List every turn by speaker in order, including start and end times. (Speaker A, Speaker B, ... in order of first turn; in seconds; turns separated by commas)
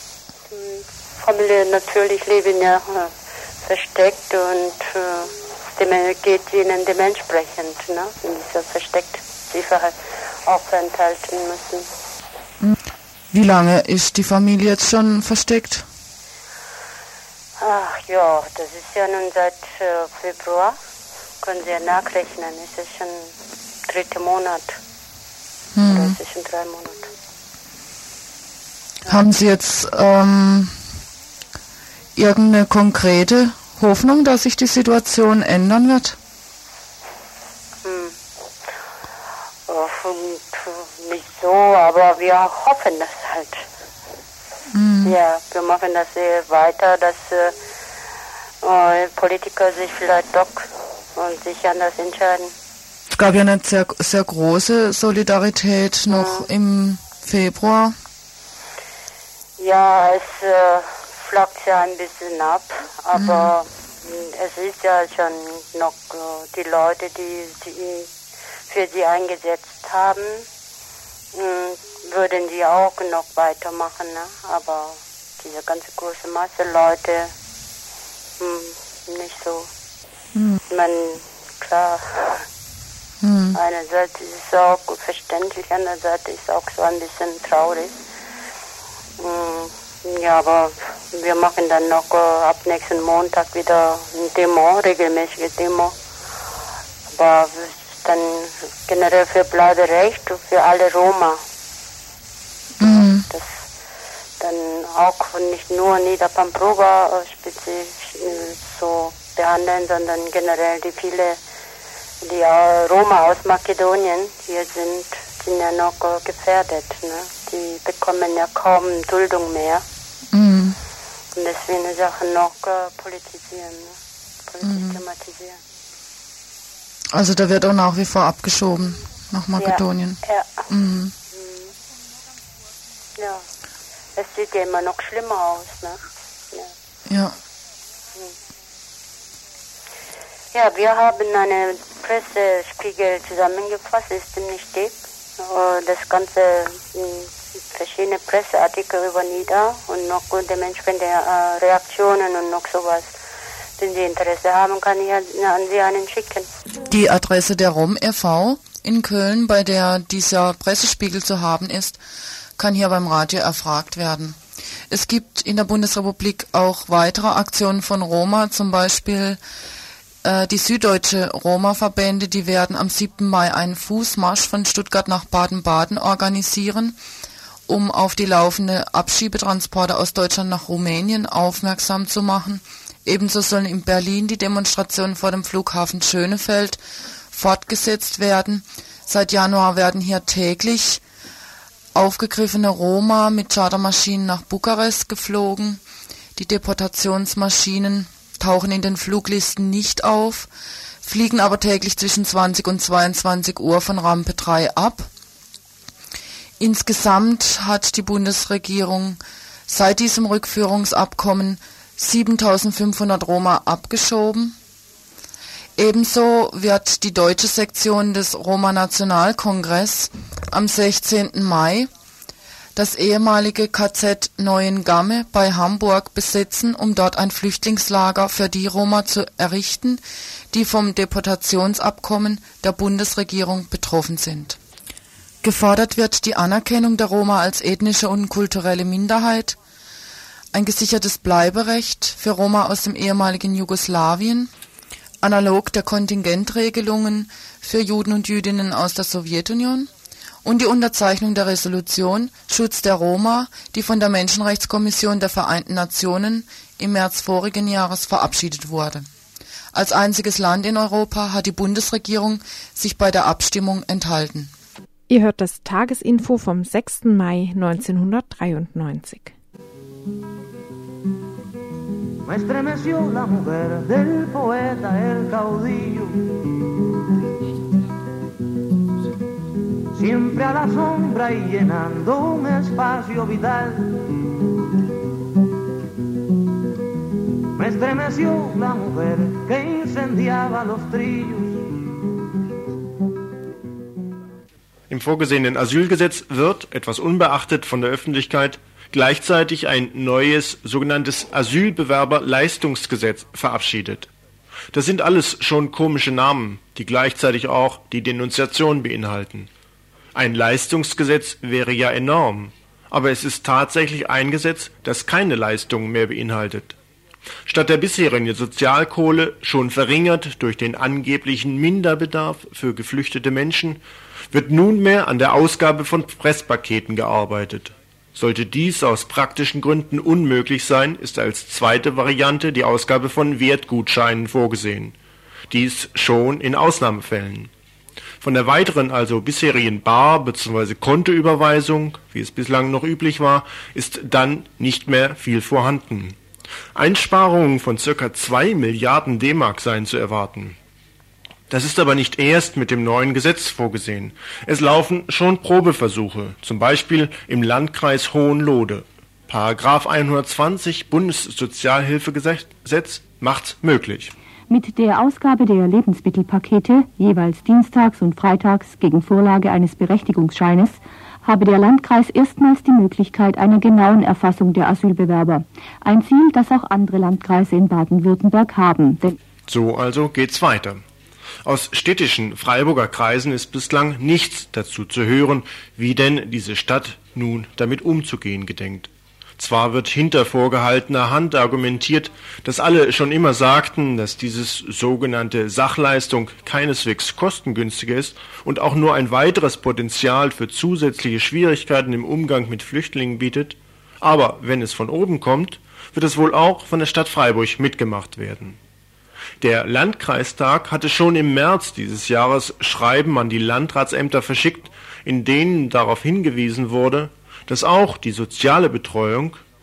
Speaker A: 0.5-11.8, Speaker B: 13.3-15.8, Speaker A: 17.6-20.8, Speaker A: 21.4-23.2, Speaker A: 23.9-24.8, Speaker B: 25.8-26.1, Speaker A: 25.8-27.1, Speaker B: 29.1-30.7, Speaker B: 32.1-36.1, Speaker A: 37.8-38.1, Speaker A: 39.7-43.6, Speaker B: 44.7-45.1, Speaker A: 45.0-47.5, Speaker A: 48.6-52.5, Speaker B: 53.1-57.9, Speaker A: 56.1-56.5, Speaker A: 59.6-68.1, Speaker B: 63.1-63.5, Speaker A: 68.7-70.5, Speaker A: 71.3-77.3, Speaker A: 78.4-79.7, Speaker B: 80.3-80.6, Speaker A: 80.7-82.4, Speaker B: 83.2-83.6, Speaker A: 83.5-87.9, Speaker A: 89.2-95.9, Speaker A: 97.1-101.4, Speaker B: 102.8-103.2, Speaker A: 102.8-103.6, Speaker A: 104.4-111.4, Speaker A: 112.2-119.8, Speaker B: 120.3-120.8, Speaker A: 121.3-123.9, Speaker A: 124.5-125.6, Speaker B: 124.6-125.0, Speaker B: 127.1-131.1, Speaker A: 129.6-130.6, Speaker A: 131.3-131.7, Speaker A: 133.2-133.4, Speaker A: 134.2-136.0, Speaker B: 137.1-137.3, Speaker A: 140.5-153.1, Speaker A: 153.8-156.5, Speaker B: 156.8-162.0, Speaker B: 162.6-164.4, Speaker B: 164.9-169.4, Speaker B: 170.2-176.9, Speaker B: 177.7-186.8, Speaker B: 187.3-191.0, Speaker B: 191.9-195.8, Speaker B: 196.4-200.5, Speaker B: 201.0-205.1, Speaker B: 206.6-214.6, Speaker B: 215.8-221.9, Speaker B: 222.8-234.6, Speaker B: 235.4-239.6, Speaker B: 240.5-244.5, Speaker B: 245.2-249.9, Speaker B: 250.4-259.1, Speaker B: 259.7-264.5, Speaker C: 265.1-269.3, Speaker D: 272.2-276.3, Speaker D: 279.9-284.0, Speaker D: 287.6-291.6, Speaker E: 294.9-304.1, Speaker E: 304.7-309.5, Speaker E: 310.1-316.8, Speaker E: 317.4-334.9, Speaker E: 335.5-337.5, Speaker E: 338.2-346.2, Speaker E: 346.7-350.6, Speaker E: 351.5-364.1, Speaker F: 364.5-379.1, Speaker E: 379.5-380.8, Speaker E: 381.4-408.6, Speaker E: 409.4-419.4